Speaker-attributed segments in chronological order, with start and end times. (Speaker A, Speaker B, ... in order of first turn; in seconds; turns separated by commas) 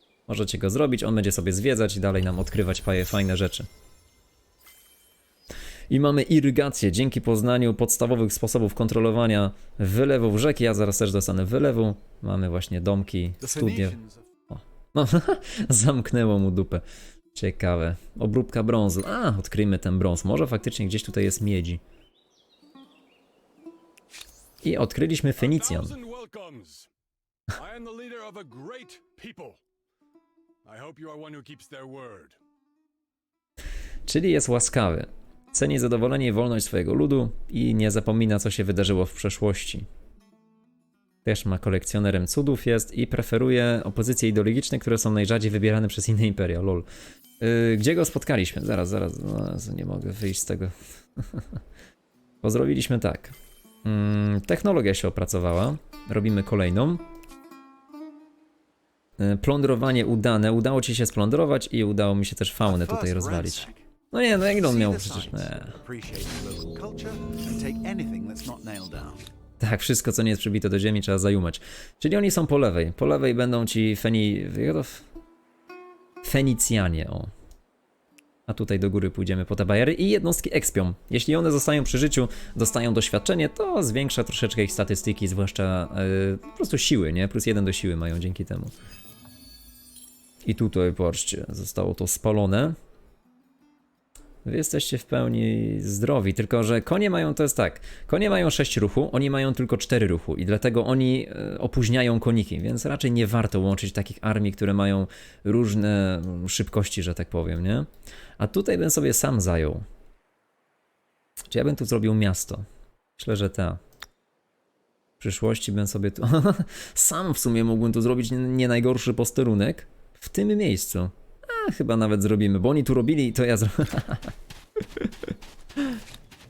Speaker A: 0.3-3.7, Speaker A: 5.9-13.9, Speaker B: 13.4-14.3, Speaker A: 14.5-16.8, Speaker A: 17.3-21.8, Speaker A: 24.6-25.9, Speaker C: 25.4-26.9, Speaker C: 27.5-29.6, Speaker C: 30.6-32.4, Speaker A: 34.1-39.9, Speaker A: 41.2-46.9, Speaker A: 47.4-51.5, Speaker A: 52.4-57.0, Speaker A: 59.2-65.8, Speaker B: 62.6-69.3, Speaker A: 69.6-75.0, Speaker A: 76.2-77.3, Speaker A: 78.5-88.7, Speaker A: 90.4-92.8, Speaker A: 94.4-107.9, Speaker A: 108.4-109.8, Speaker A: 111.5-112.6, Speaker A: 113.2-113.8, Speaker A: 115.2-124.3